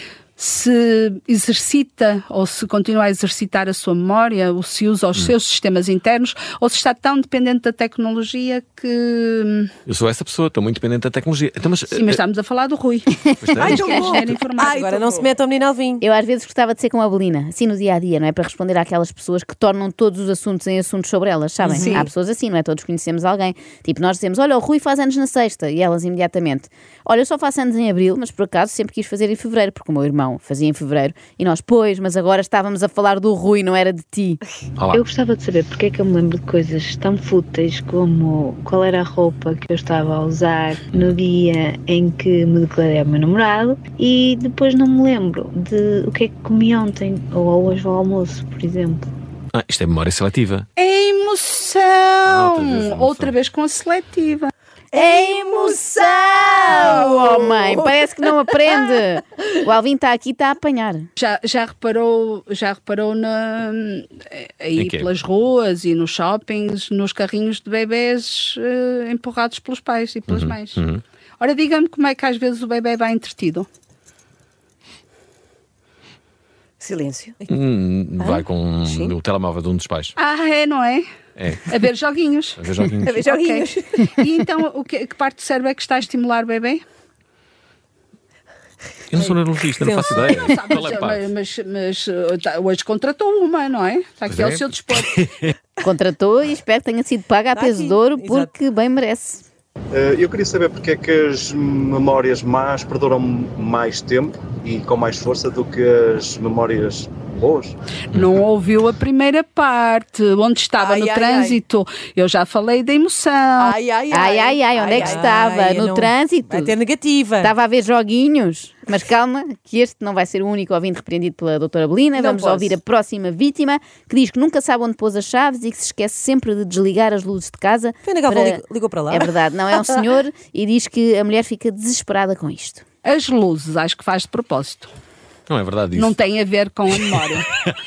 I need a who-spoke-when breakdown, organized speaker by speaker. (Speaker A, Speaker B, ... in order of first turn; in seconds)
Speaker A: 0.4-9.7, 11.9-15.2, 50.8-57.0, 61.2-70.8, 71.4-73.7, 80.2-81.1, 81.7-82.6, 83.1-86.8, 90.4-95.1, 108.2-113.7, 133.0-134.9, 135.9-137.5
Speaker B: 9.9-12.2, 13.4-13.9, 34.8-35.1, 40.9-41.2, 49.5-50.7, 52.2-53.4, 64.8-65.1, 70.3-71.0, 77.5-80.1, 81.4-81.8, 82.6-83.3, 89.1-91.3, 94.3-95.5, 135.5-136.2, 136.9-137.2
Speaker C: 13.5-16.0, 21.6-22.1, 89.1-90.5, 97.5-98.5, 114.8-117.5, 122.2-122.6, 128.1-129.3
Speaker D: 13.7-14.4, 21.7-22.1, 54.9-57.9, 76.8-77.4, 78.2-79.1, 83.0-84.3, 110.8-111.6, 113.6-115.3, 122.4-122.8
Speaker E: 16.0-34.4, 56.0-61.1, 95.8-99.5, 114.1-116.8, 117.4-132.8
Speaker F: 34.9-49.1
Speaker G: 99.9-107.7